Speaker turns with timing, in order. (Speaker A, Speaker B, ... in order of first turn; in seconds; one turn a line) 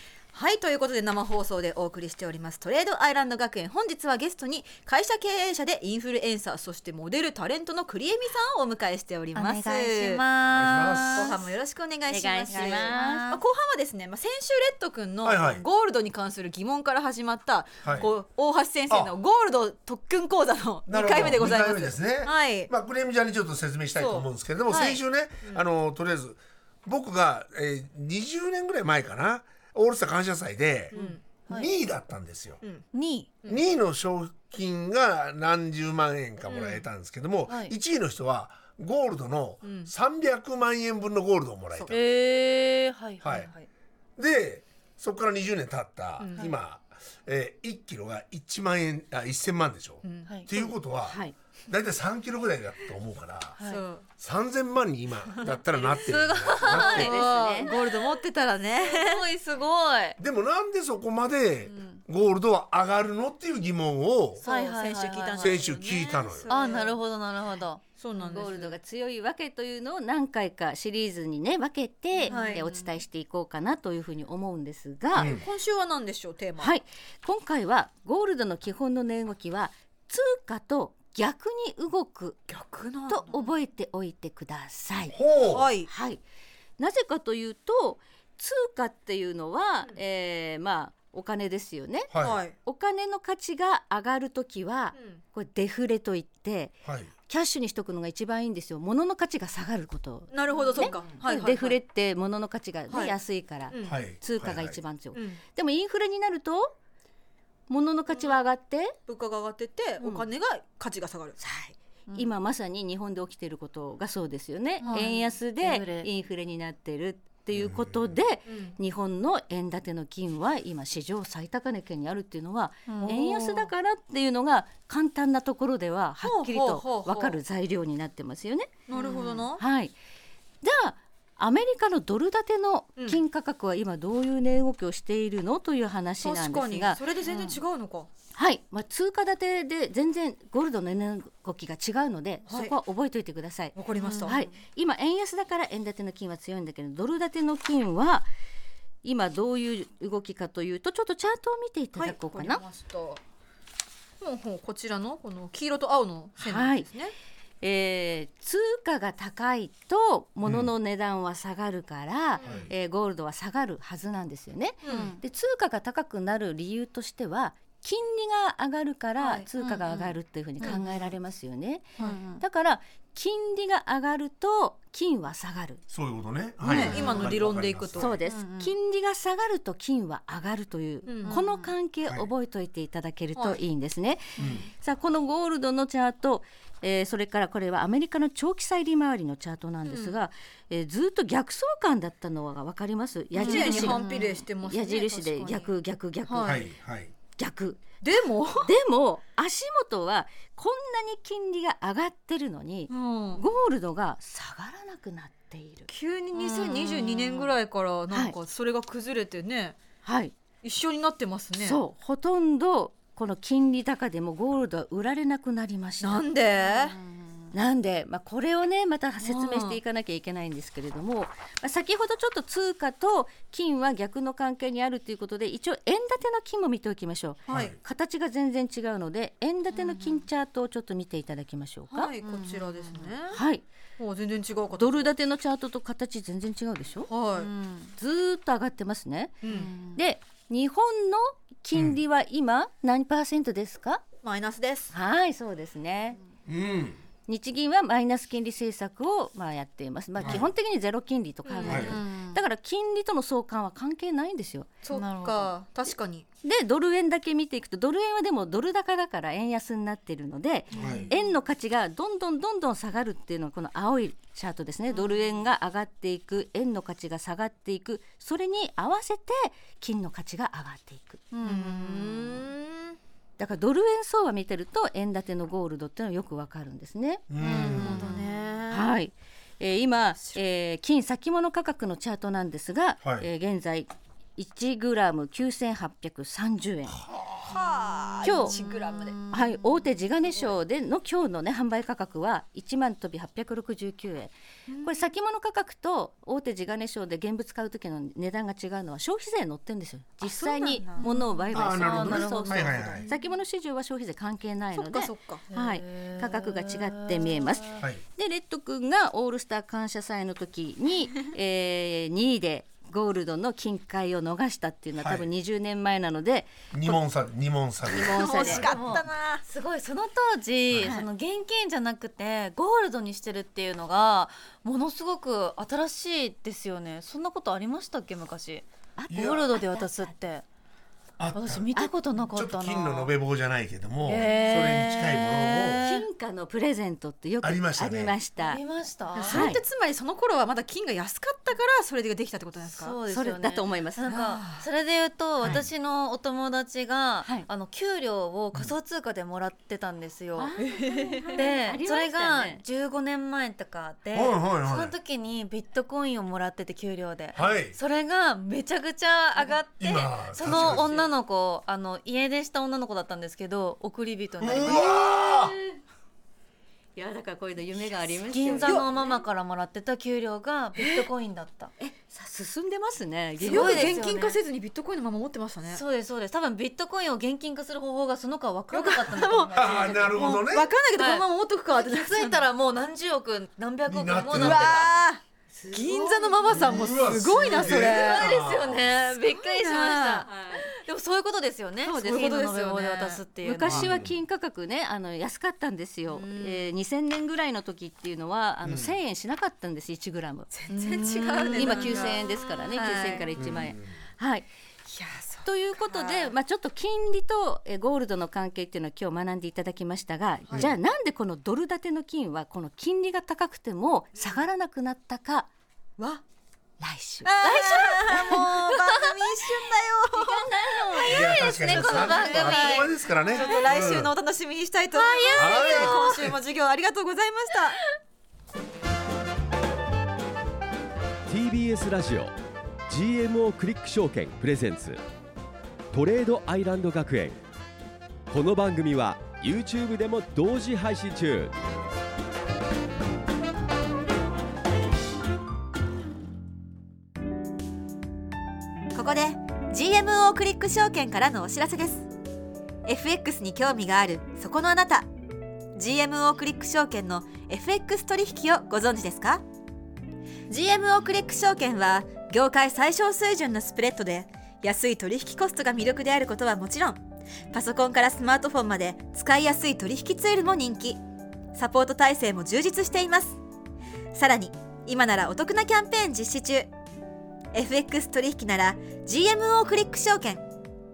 Speaker A: 0.3-10.2
Speaker B: 9.4-9.7
Speaker C: 9.4-11.4
Speaker D: 10.4-11.3
Speaker A: 11.1-22.7
Speaker B: 12.1-13.3
Speaker C: 12.5-13.4
Speaker D: 15.2-15.6
Speaker D: 17.8-18.1
Speaker D: 18.9-19.1
Speaker D: 20.9-30.9
Speaker A: 23.9-24.9
Speaker C: 24.7-25.0
Speaker A: 30.9-31.2
Speaker C: 30.9-31.7
Speaker D: 31.5-32.6
Speaker C: 32.9-33.3
Speaker D: 33.5-42.0
Speaker A: 36.5-36.8
Speaker C: 37.5-37.7
Speaker A: 39.6-39.9
Speaker C: 41.9-43.7
Speaker D: 43.2-43.5
Speaker D: 44.2-53.6
Speaker A: 46.2-46.5
Speaker A: 50.0-50.7
Speaker B: 51.0-51.4
Speaker C: 53.6-53.8
Speaker A: 53.6-54.0
Speaker D: 54.1-57.2
Speaker C: 55.8-58.0
Speaker B: 56.6-57.7
Speaker A: 56.7-59.2
Speaker C: 58.8-60.2
Speaker D: 60.2-64.4
Speaker A: 64.4-66.9
Speaker C: 64.4-65.6
Speaker D: 65.4-66.5
Speaker C: 66.5-67.8
Speaker A: 68.0-68.7
Speaker B: 68.2-75.4
Speaker C: 72.1-72.8
Speaker A: 72.3-72.7
Speaker D: 75.2-75.4
Speaker A: 75.2-76.7
Speaker B: 76.6-82.4
Speaker A: 82.5-83.4
Speaker B: 83.1-85.2
Speaker D: 85.1-85.7
Speaker A: 85.4-85.9
Speaker B: 85.8-86.2
Speaker B: 86.8-106.8
Speaker D: 92.1-92.4
Speaker A: 92.2-92.5
Speaker A: 94.9-95.2
Speaker D: 96.8-97.1
Speaker A: 100.3-101.8
Speaker C: 100.5-101.2
Speaker A: 102.9-103.2
Speaker A: 103.7-104.0
Speaker D: 103.8-104.8
Speaker A: 105.1-105.4
Speaker B: 107.7-109.0
Speaker A: 108.1-108.4
Speaker A: 109.1-111.4
Speaker B: 110.0-110.3
Speaker B: 111.4-128.8
Speaker C: 114.8-116.1
Speaker A: 114.8-115.2
Speaker D: 117.5-118.2
Speaker A: 118.5-118.7
Speaker C: 122.9-123.2
Speaker A: 123.0-123.7
Speaker A: 126.2-127.4
Speaker A: 128.9-129.6
Speaker C: 128.9-129.4
Speaker B: 129.4-129.9
Speaker B: 130.6-137.0
Speaker A: 136.2-138.1
Speaker C: 137.2-137.6
Speaker B: 138.3-148.3
Speaker A: 142.5-142.7
Speaker A: 143.7-144.4
Speaker C: 144.0-144.5
Speaker B: 149.0-152.6
Speaker A: 151.9-153.2
Speaker A: 154.2-157.1
Speaker B: 156.4-156.9
Speaker B: 157.6-175.8
Speaker D: 160.4-160.7
Speaker D: 162.4-162.7
Speaker A: 164.8-165.1
Speaker C: 164.8-165.2
Speaker A: 169.2-169.5
Speaker C: 169.6-171.0
Speaker A: 170.6-170.9
Speaker C: 172.0-172.4
Speaker D: 175.9-178.2
Speaker A: 176.6-178.3
Speaker B: 176.7-177.3
Speaker C: 176.7-177.3
Speaker B: 178.0-196.7
Speaker C: 178.2-178.7
Speaker A: 181.1-181.4
Speaker C: 181.2-181.7
Speaker D: 184.4-184.7
Speaker A: 189.9-190.2
Speaker A: 193.3-195.7
Speaker C: 193.4-194.4
Speaker A: 196.2-196.6
Speaker D: 196.4-197.1
Speaker B: 197.3-205.9
Speaker A: 198.0-198.7
Speaker A: 202.9-203.4
Speaker A: 205.9-209.8
Speaker C: 206.3-207.6
Speaker B: 208.1-208.3
Speaker B: 210.0-210.3
Speaker A: 210.6-211.8
Speaker B: 211.5-216.3
Speaker A: 216.0-217.0
Speaker C: 216.6-217.5
Speaker B: 217.5-232.1
Speaker A: 219.2-219.8
Speaker A: 227.5-227.7
Speaker D: 227.5-227.8
Speaker C: 229.7-230.2
Speaker A: 231.9-233.4
Speaker C: 232.2-233.1
Speaker B: 233.3-233.6
Speaker A: 234.0-235.1
Speaker B: 234.7-237.1
Speaker A: 237.1-237.5
Speaker C: 237.3-237.9
Speaker B: 237.9-244.0
Speaker A: 239.4-239.7
Speaker C: 239.4-240.0
Speaker A: 244.2-244.9
Speaker B: 244.9-246.2
Speaker D: 246.4-247.0
Speaker B: 247.2-254.7
Speaker D: 250.2-250.5
Speaker A: 251.4-252.0
Speaker D: 251.6-252.0
Speaker C: 251.6-252.4
Speaker A: 254.8-256.2
Speaker C: 254.9-255.5
Speaker B: 256.4-271.2
Speaker D: 260.7-261.1
Speaker A: 260.7-261.1
Speaker C: 260.8-261.1
Speaker C: 271.3-272.4
Speaker A: 271.4-273.0
Speaker B: 273.4-277.2
Speaker D: 277.3-278.0
Speaker A: 277.4-278.9
Speaker C: 277.4-278.6
Speaker B: 278.7-287.0
Speaker D: 283.0-283.3
Speaker D: 286.9-287.5
Speaker A: 287.4-289.2
Speaker B: 288.2-288.6
Speaker C: 288.2-289.4
Speaker B: 289.2-317.0
Speaker A: 294.7-295.0
Speaker A: 300.2-301.1
Speaker C: 301.0-303.1
Speaker D: 301.5-303.1
Speaker A: 304.7-305.4
Speaker C: 305.5-307.8
Speaker D: 307.8-308.0
Speaker D: 315.0-315.3
Speaker D: 316.7-318.6
Speaker B: 317.9-318.7
Speaker A: 317.9-319.4
Speaker C: 318.4-330.4
Speaker B: 320.8-321.1
Speaker B: 329.0-330.1
Speaker D: 329.1-329.4
Speaker D: 331.2-331.7
Speaker C: 331.3-333.1
Speaker D: 332.3-335.8
Speaker C: 334.0-336.1
Speaker B: 335.8-338.6
Speaker D: 337.4-338.1
Speaker C: 338.4-339.5
Speaker A: 339.1-342.9
Speaker B: 339.3-339.6
Speaker C: 342.7-350.5
Speaker B: 343.1-344.1
Speaker A: 344.1-344.6
Speaker B: 350.4-352.6
Speaker A: 350.6-351.4
Speaker C: 351.3-365.0
Speaker D: 354.1-354.9
Speaker D: 357.3-357.8
Speaker D: 359.8-360.9
Speaker B: 360.5-361.0
Speaker D: 364.4-365.6
Speaker B: 364.6-365.6
Speaker B: 366.9-369.1
Speaker C: 368.3-371.7
Speaker A: 368.6-368.9
Speaker B: 370.8-371.0
Speaker B: 371.8-374.1
Speaker C: 373.4-374.4
Speaker A: 373.4-375.8
Speaker C: 375.7-380.4
Speaker A: 378.7-382.4
Speaker D: 379.5-380.7
Speaker C: 380.9-381.2
Speaker C: 381.8-384.9
Speaker D: 383.9-384.9
Speaker A: 384.3-388.3
Speaker B: 385.5-387.1
Speaker D: 386.5-389.0
Speaker C: 387.4-393.9
Speaker A: 389.3-390.3
Speaker B: 390.3-390.6
Speaker B: 391.9-392.4
Speaker A: 391.9-393.2
Speaker B: 393.4-400.5
Speaker D: 393.6-394.2
Speaker A: 396.1-396.7
Speaker D: 398.6-398.9
Speaker A: 400.5-403.3
Speaker C: 400.7-402.2
Speaker B: 401.3-404.5
Speaker D: 403.3-404.0
Speaker A: 404.9-406.3
Speaker B: 405.4-415.5
Speaker D: 410.5-410.7
Speaker A: 414.2-414.4
Speaker B: 416.8-419.6
Speaker A: 417.2-427.8
Speaker B: 420.1-422.4
Speaker C: 420.9-423.6
Speaker D: 421.1-424.1
Speaker C: 424.9-426.2
Speaker B: 425.0-426.0
Speaker D: 425.3-426.4
Speaker E: 431.3-432.3
Speaker E: 432.9-435.0
Speaker E: 435.9-437.4
Speaker E: 438.3-441.5
Speaker A: 448.9-452.1
Speaker A: 452.8-455.1
Speaker A: 455.7-459.4
Speaker A: 460.5-471.0
Speaker A: 471.5-473.4
Speaker A: 474.1-476.7
Speaker A: 477.5-480.5